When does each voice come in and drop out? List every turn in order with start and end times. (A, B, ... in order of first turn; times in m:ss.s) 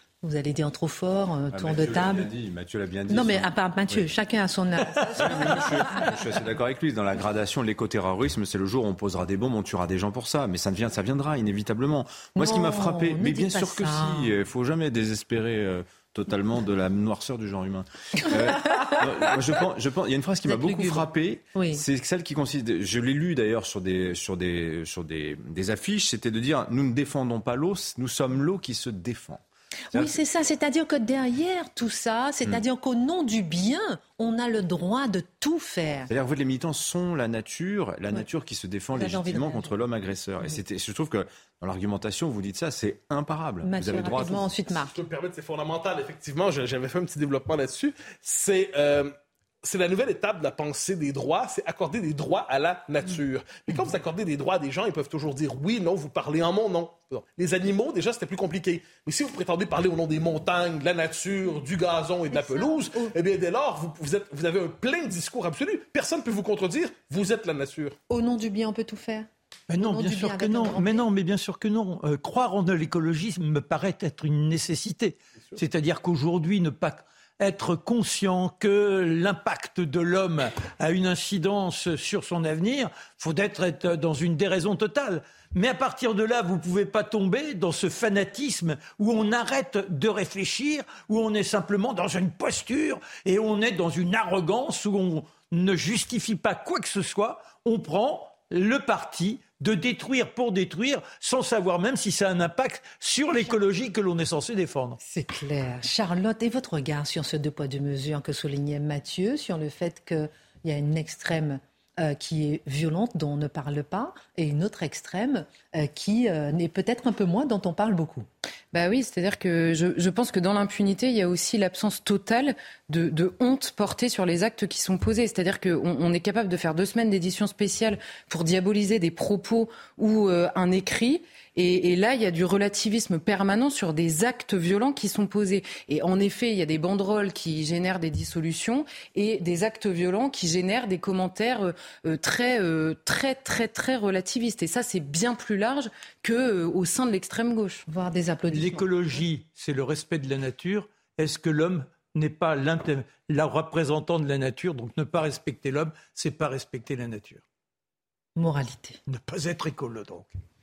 0:00.2-0:02.3 A
0:01.5-0:04.1 B
0:03.1-0:06.2 A
0:05.1-0:29.4 B
0:12.4-0:14.3 A
0:18.2-0:19.3 A
0:20.5-0:21.8 A
0:29.9-0:36.1 A
0:36.1-0:44.5 B
0:39.0-0:39.7 A
0:43.6-0:45.0 A
0:44.9-1:08.0 C
1:02.3-1:03.1 A
1:08.1-1:11.0 A
1:09.7-1:45.0 D
1:45.0-1:58.3 A
1:58.7-2:27.9 E
2:27.9-2:28.9 A
2:28.5-2:37.4 D
2:38.4-2:39.0 A
2:39.1-2:40.3 D